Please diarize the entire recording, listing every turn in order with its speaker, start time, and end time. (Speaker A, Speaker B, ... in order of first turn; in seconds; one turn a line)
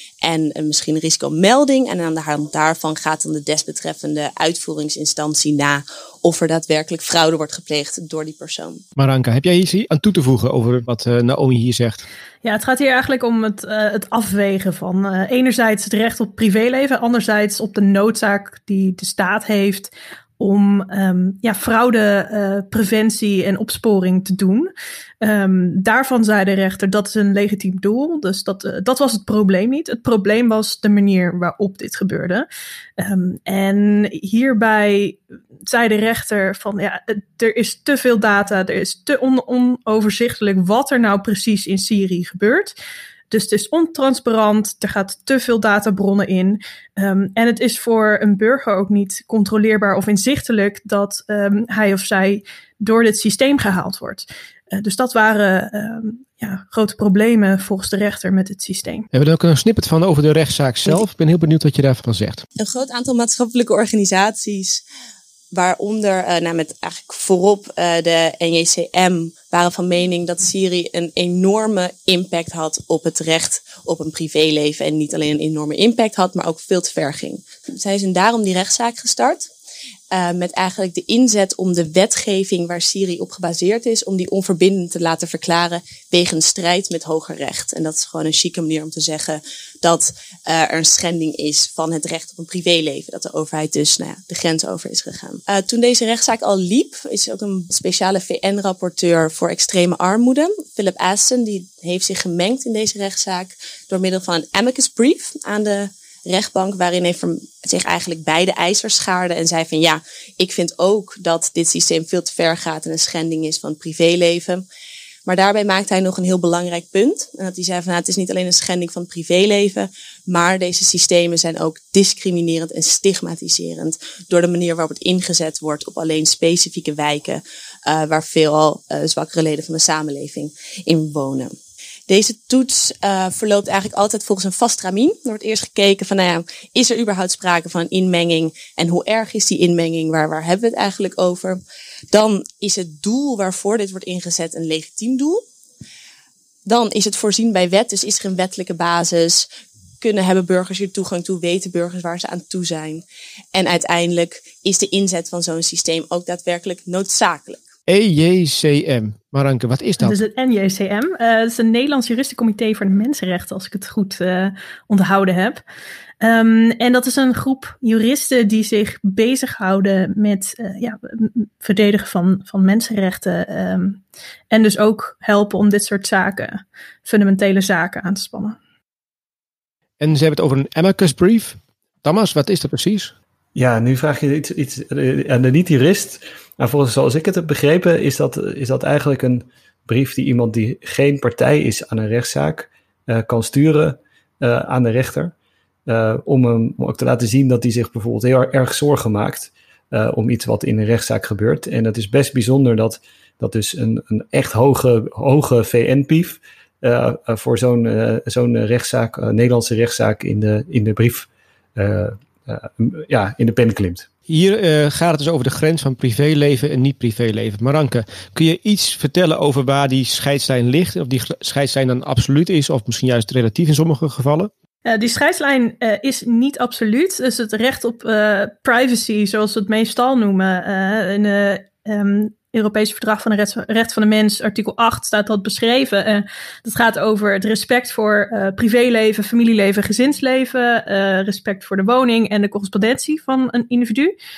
Speaker A: 0.2-8.8
Speaker B: 9.0-12.0
Speaker C: 12.4-32.5
Speaker C: 33.0-42.7
Speaker C: 43.3-59.1
Speaker B: 59.1-62.4
Speaker A: 62.6-64.8
Speaker A: 65.5-79.5
Speaker A: 80.1-114.6
Speaker A: 115.2-131.5
Speaker A: 132.1-145.4
Speaker A: 146.7-149.5
Speaker A: 150.0-157.6
Speaker B: 157.9-160.2
Speaker C: 160.0-165.6
Speaker C: 166.2-178.6
Speaker B: 180.0-183.1
Speaker D: 183.6-195.3
Speaker D: 195.9-214.1
Speaker B: 214.3-224.5
Speaker C: 224.8-244.2